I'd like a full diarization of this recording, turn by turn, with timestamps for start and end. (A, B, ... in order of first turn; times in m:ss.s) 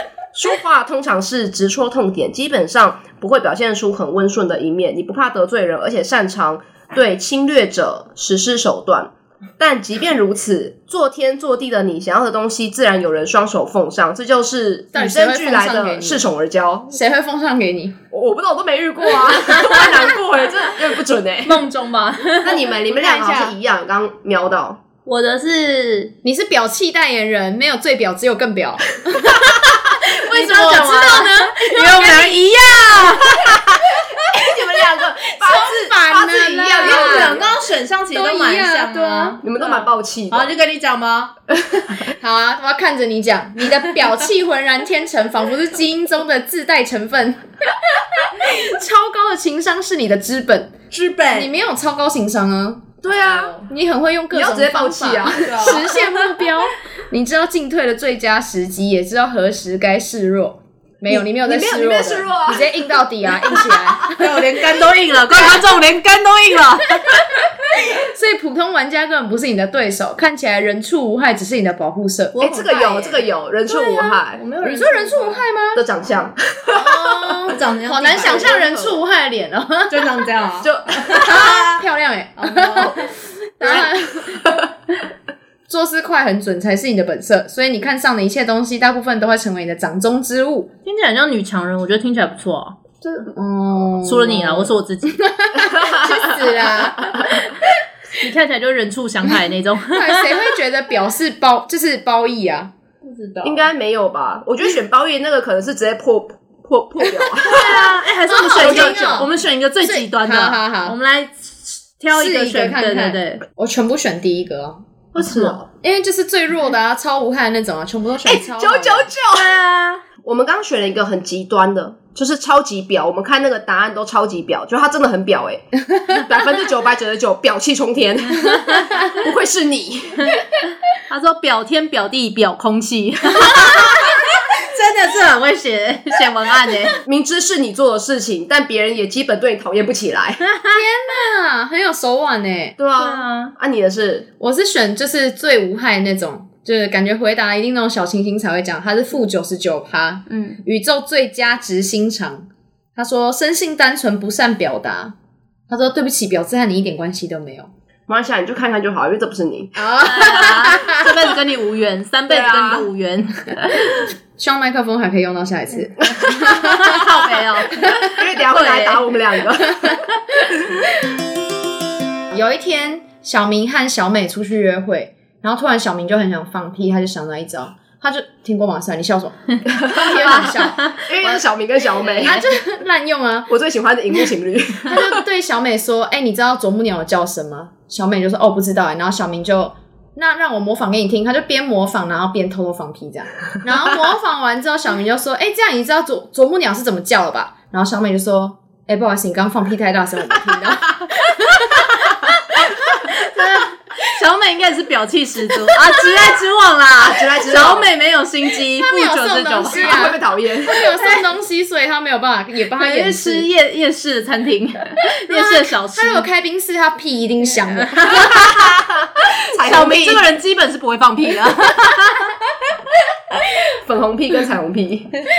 0:00.3-0:17.0 A
0:14.9-0:16.2 B
0:16.9-0:18.0 B
0:18.1-0:21.6 A
0:19.4-0:19.8 C
0:21.4-0:22.6 C
0:22.4-0:24.8 A
0:22.8-0:23.5 B
0:25.0-0:26.1 C
0:26.2-0:32.9 B
0:29.9-0:34.0 C
0:33.5-0:37.6 A
0:35.2-0:37.4 B
0:36.8-0:41.3 C
0:38.1-0:39.4 B
0:39.4-0:40.5 A
0:41.5-0:41.8 A
0:42.1-1:04.5 B
0:50.9-0:51.5 C
0:53.0-0:53.6 A
0:53.1-0:53.6 C
0:54.3-0:56.0 A
0:55.4-0:56.3 C
1:01.2-1:04.0 A
1:04.0-1:07.2 C
1:07.0-1:15.8 B
1:12.3-1:14.4 A
1:14.3-1:15.4 C
1:15.7-1:19.0 A
1:16.7-1:20.3 B
1:17.5-1:18.5 C
1:19.9-1:21.8 C
1:20.6-1:21.3 A
1:21.1-1:24.5 B
1:22.4-1:23.0 C
1:23.6-1:23.9 C
1:24.4-1:24.6 A
1:25.7-1:30.7 B
1:30.8-1:32.9 C
1:33.3-1:37.8 B
1:34.0-1:35.3 C
1:35.6-1:37.2 A
1:38.2-1:40.4 C
1:39.9-1:42.7 B
1:43.0-1:43.7 C
1:43.4-1:47.7 A
1:47.4-1:53.4 C
1:47.4-1:49.3 B
1:48.6-1:49.3 A
1:49.8-1:51.0 B
1:52.1-1:59.1 B
1:55.1-1:55.6 C
1:55.2-1:55.6 A
1:58.2-1:59.5 A
1:59.3-2:00.0 C
2:00.2-2:10.4 A
2:08.4-2:08.9 C
2:11.1-2:17.0 C
2:17.0-2:20.4 A
2:20.4-2:20.8 C
2:20.7-2:22.8 B
2:22.8-2:24.2 A
2:23.0-2:23.5 C
2:24.4-2:35.1 B
2:30.3-2:30.6 C
2:35.7-2:37.7 B
2:38.1-2:40.0 A
2:39.8-2:41.1 B
2:40.0-2:44.1 C
2:42.3-2:42.9 A
2:44.4-2:47.0 B
2:46.3-2:49.1 C
2:47.8-2:48.1 B
2:48.0-2:50.0 A
2:49.7-2:50.0 B
2:52.3-3:01.4 B
2:59.7-3:02.4 A
3:00.2-3:01.0 C
3:02.0-3:02.4 C
3:02.2-3:03.5 B
3:03.5-3:05.2 A
3:04.9-3:23.2 B
3:23.0-3:30.2 C
3:27.0-3:27.9 A
3:28.8-3:33.5 B
3:29.6-3:30.8 A
3:30.8-3:31.3 C
3:32.8-3:36.3 C
3:35.3-3:38.3 B
3:37.6-3:38.7 C
3:38.1-3:40.2 A
3:39.5-3:42.4 C
3:43.8-3:45.2 A